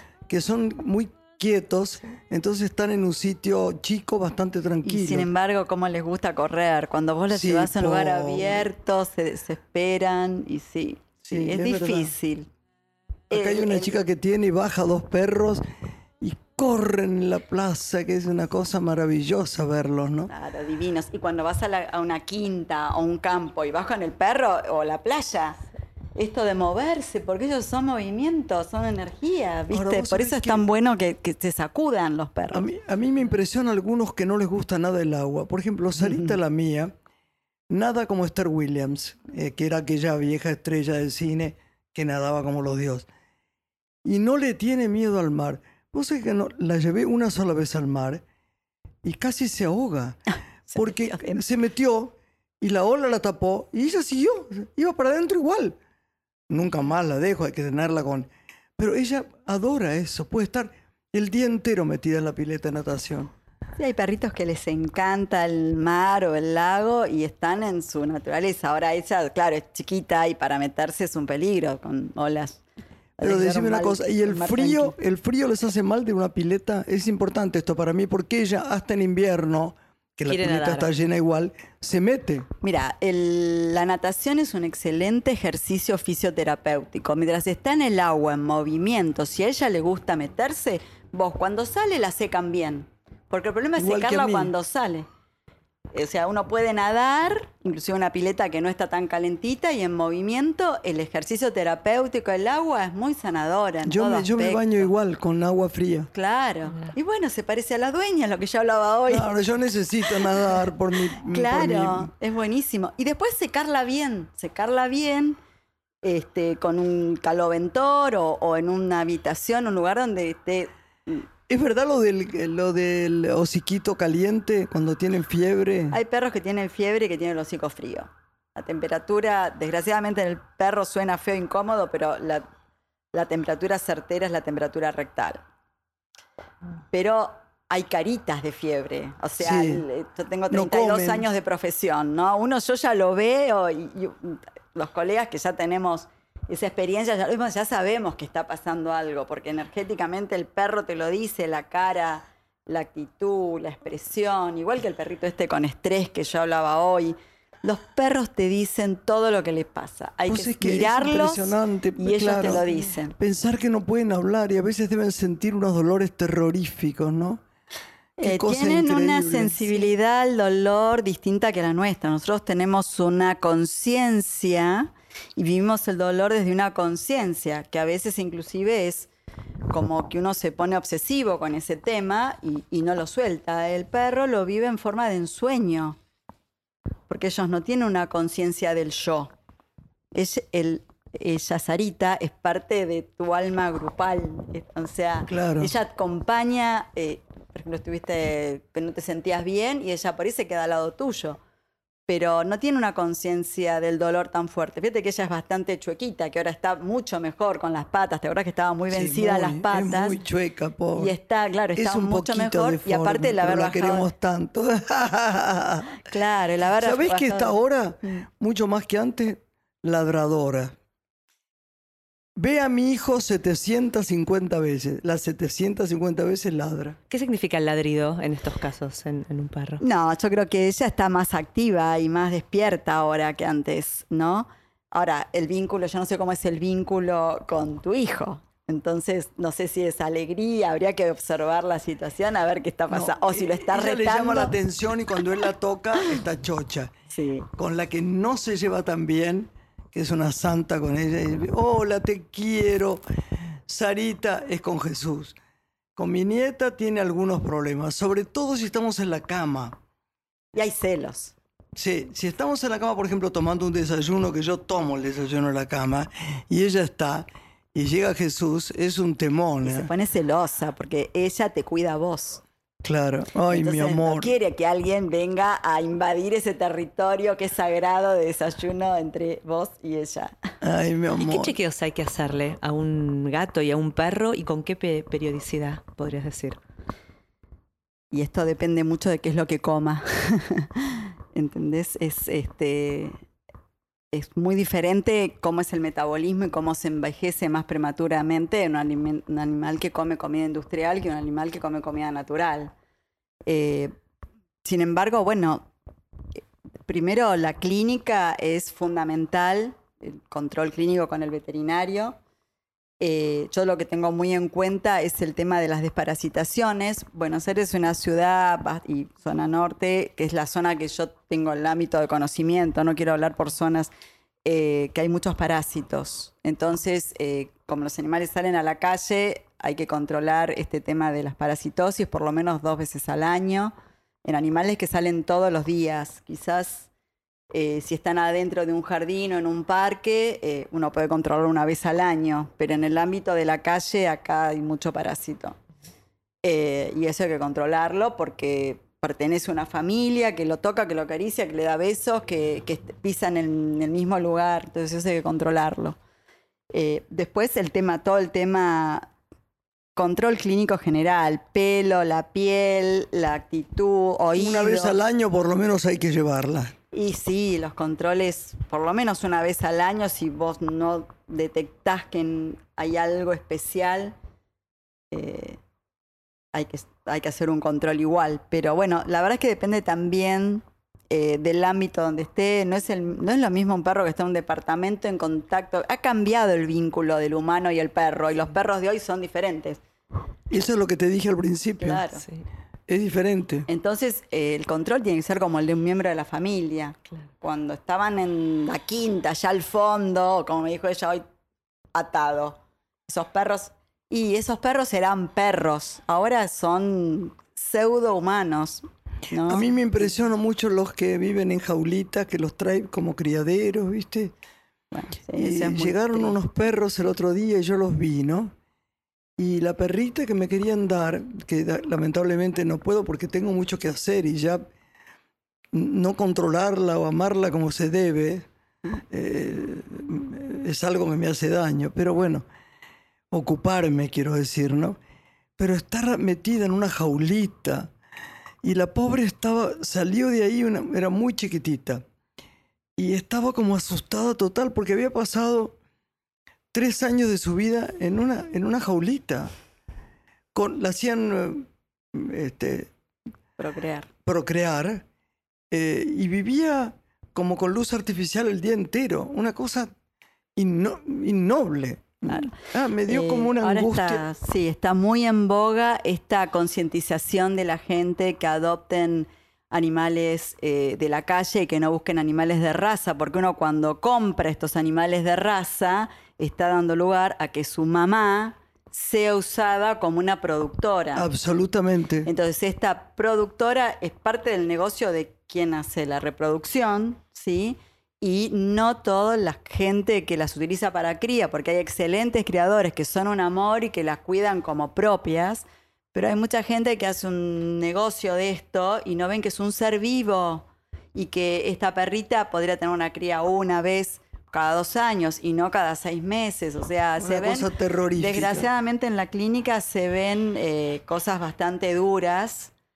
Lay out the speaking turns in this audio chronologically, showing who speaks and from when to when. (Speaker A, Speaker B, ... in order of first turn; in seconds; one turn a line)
Speaker A: 0.3-5.3
Speaker B: 4.8-12.5
Speaker A: 7.3-8.7
Speaker A: 11.2-12.1
Speaker B: 13.3-13.9
Speaker A: 13.3-15.6
Speaker A: 16.2-20.3
Speaker B: 20.3-25.6
Speaker B: 26.1-32.7
Speaker A: 29.7-30.7
Speaker A: 32.5-36.9
Speaker B: 36.0-36.3
Speaker A: 37.7-43.1
Speaker A: 44.0-48.2
Speaker A: 49.0-50.2
Speaker B: 50.7-51.4
Speaker A: 50.7-55.8
Speaker A: 56.5-63.3
Speaker B: 63.8-72.6
Speaker B: 73.2-75.0
Speaker A: 73.2-82.5
Speaker C: 80.3-80.9
Speaker B: 82.6-95.1
Speaker A: 93.8-94.5
Speaker B: 95.9-104.9
Speaker A: 103.8-106.1
Speaker B: 106.1-109.3
Speaker A: 109.1-112.1
Speaker B: 111.3-115.4
Speaker B: 116.0-121.3
Speaker A: 121.5-126.0
Speaker B: 125.9-132.4
Speaker B: 133.1-135.4
Speaker B: 136.9-163.1
Speaker A: 139.4-139.8
Speaker A: 140.5-141.2
Speaker A: 160.3-167.4
Speaker A: 168.2-169.6
Speaker B: 168.2-179.1
Speaker B: 179.7-186.0
Speaker B: 187.1-189.3
Speaker B: 190.1-201.4
Speaker A: 195.3-195.7
Speaker B: 202.1-210.2
Speaker A: 208.9-211.1
Speaker B: 210.9-214.1
Speaker A: 211.7-216.0
Speaker B: 216.0-218.2
Speaker A: 216.8-220.8
Speaker A: 222.4-227.0
Speaker C: 227.1-229.8
Speaker B: 229.8-244.6
Speaker A: 242.9-246.9
Speaker B: 247.1-247.5
Speaker A: 247.6-253.0
Speaker A: 253.7-255.4
Speaker A: 255.9-259.8
Speaker B: 260.5-261.4
Speaker A: 261.8-269.9
Speaker B: 269.6-272.4
Speaker A: 272.8-274.3
Speaker B: 273.5-280.3
Speaker A: 280.6-281.5
Speaker C: 281.2-286.6
Speaker B: 288.1-293.2
Speaker B: 294.1-302.7
Speaker B: 303.5-303.9
Speaker B: 304.6-305.7
Speaker B: 306.9-312.2
Speaker B: 313.0-323.9
Speaker B: 324.4-333.7
Speaker B: 334.2-336.9
Speaker B: 337.5-345.6
Speaker B: 346.4-356.0
Speaker B: 356.7-359.1
Speaker B: 360.0-365.0
Speaker A: 364.3-366.7
Speaker B: 366.9-374.1
Speaker B: 375.1-375.6
Speaker B: 376.5-389.8
Speaker A: 390.5-392.0
Speaker B: 391.8-392.2
Speaker A: 392.9-393.7
Speaker B: 393.7-401.2
Speaker B: 401.9-409.7
Speaker A: 409.4-414.3
Speaker B: 414.9-416.4
Speaker A: 415.4-418.5
Speaker A: 419.4-424.7
Speaker A: 425.7-428.5
Speaker A: 429.1-432.4
Speaker A: 433.3-435.0
Speaker A: 435.6-437.9
Speaker A: 438.6-442.0
Speaker A: 443.0-445.7
Speaker A: 446.7-449.5
Speaker A: 450.5-452.9
Speaker B: 453.6-454.1
Speaker A: 454.2-455.0
Speaker A: 455.7-459.9
Speaker A: 460.6-464.2
Speaker B: 462.3-462.6
Speaker B: 463.1-481.3
Speaker A: 481.1-482.3
Speaker B: 482.2-512.7
Speaker A: 507.2-508.6